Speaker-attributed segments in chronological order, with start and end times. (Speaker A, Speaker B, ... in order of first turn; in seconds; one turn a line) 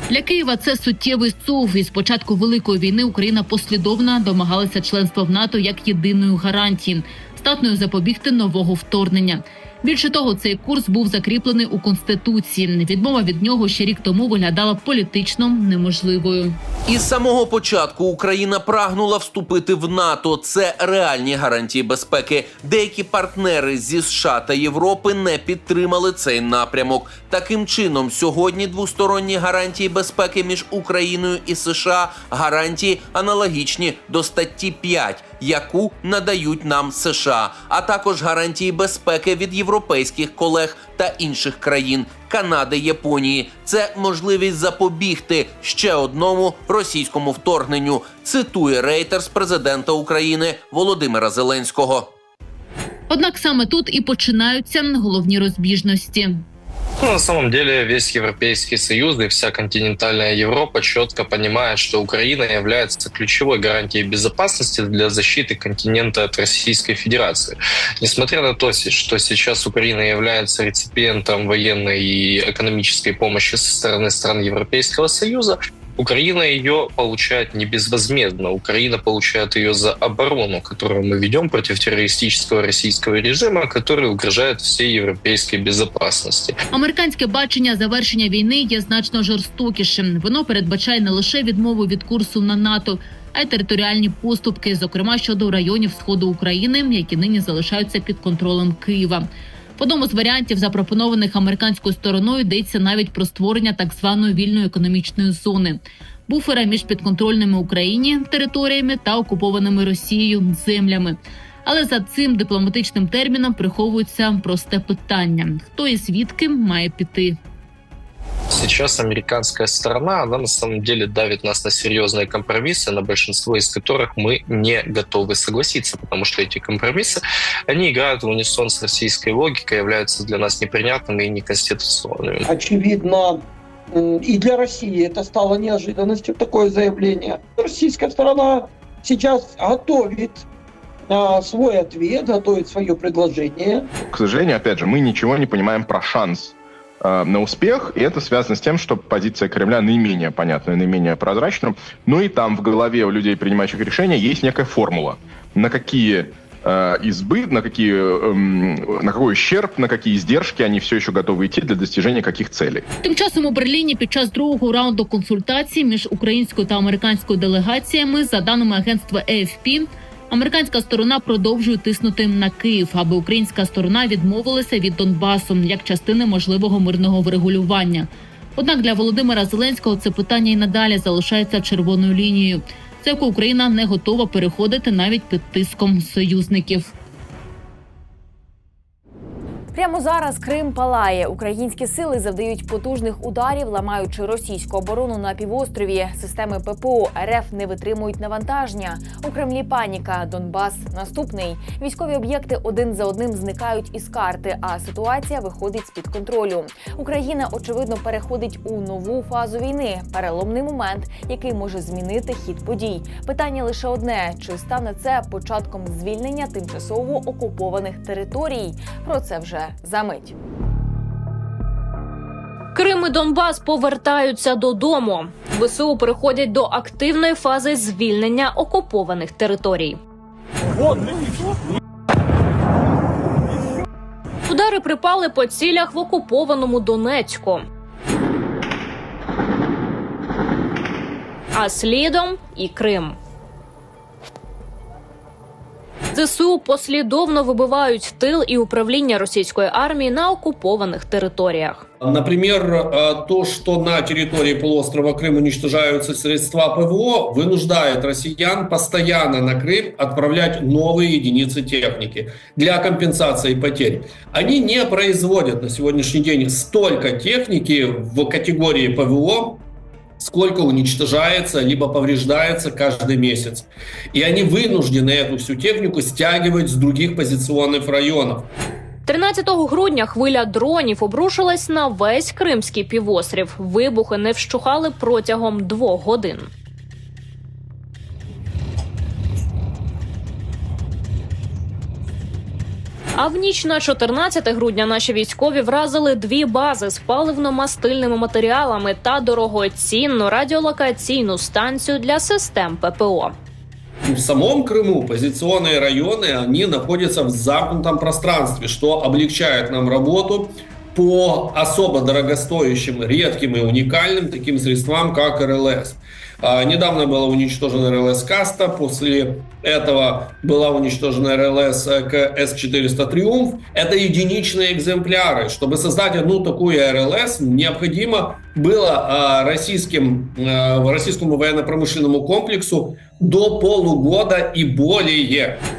Speaker A: 0.1-16.6
Speaker B: 16.9-52.1
Speaker A: 53.1-56.4
Speaker C: 57.0-86.6
Speaker A: 86.7-117.4
Speaker C: 118.5-132.4
Speaker D: 132.4-140.4
Speaker D: 141.1-143.9
Speaker E: 143.9-162.8
Speaker A: 163.0-186.9
Speaker F: 189.7-220.3
Speaker G: 222.7-230.0
Speaker G: 234.5-237.6
Speaker G: 241.5-243.2
Speaker G: 246.1-251.8
Speaker H: 252.0-269.6
Speaker H: 270.2-278.5
Speaker G: 279.1-286.5
Speaker G: 293.1-303.3
Speaker H: 304.0-335.6